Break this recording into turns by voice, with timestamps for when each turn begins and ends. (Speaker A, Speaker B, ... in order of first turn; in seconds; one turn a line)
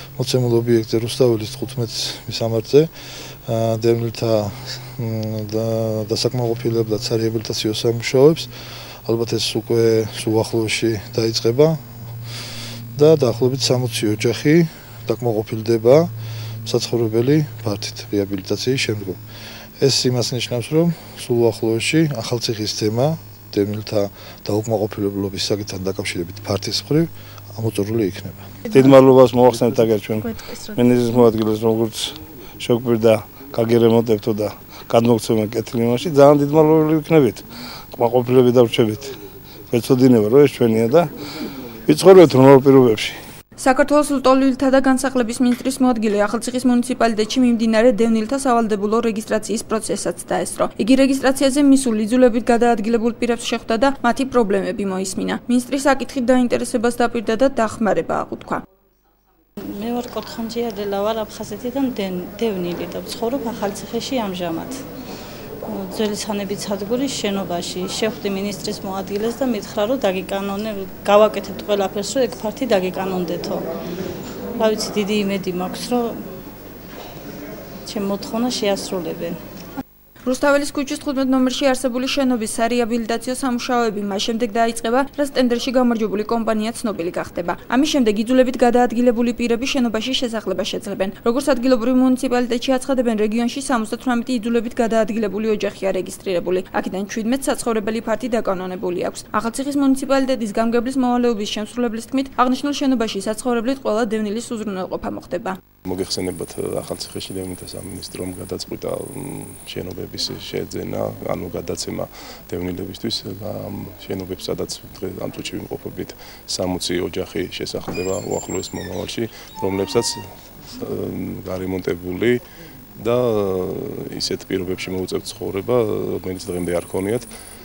Speaker A: 0.2-8.5
Speaker A: 9.1-12.4
Speaker A: 12.9-16.1
Speaker A: 16.6-19.2
Speaker A: 19.8-28.5
Speaker B: 28.7-39.1
Speaker B: 39.7-41.1
Speaker B: 41.9-43.1
Speaker C: 43.6-58.6
Speaker D: 59.7-64.8
Speaker D: 65.7-73.7
Speaker D: 74.5-76.2
Speaker D: 77.9-79.4
Speaker C: 80.2-105.6
Speaker E: 105.9-122.4
Speaker E: 123.0-127.3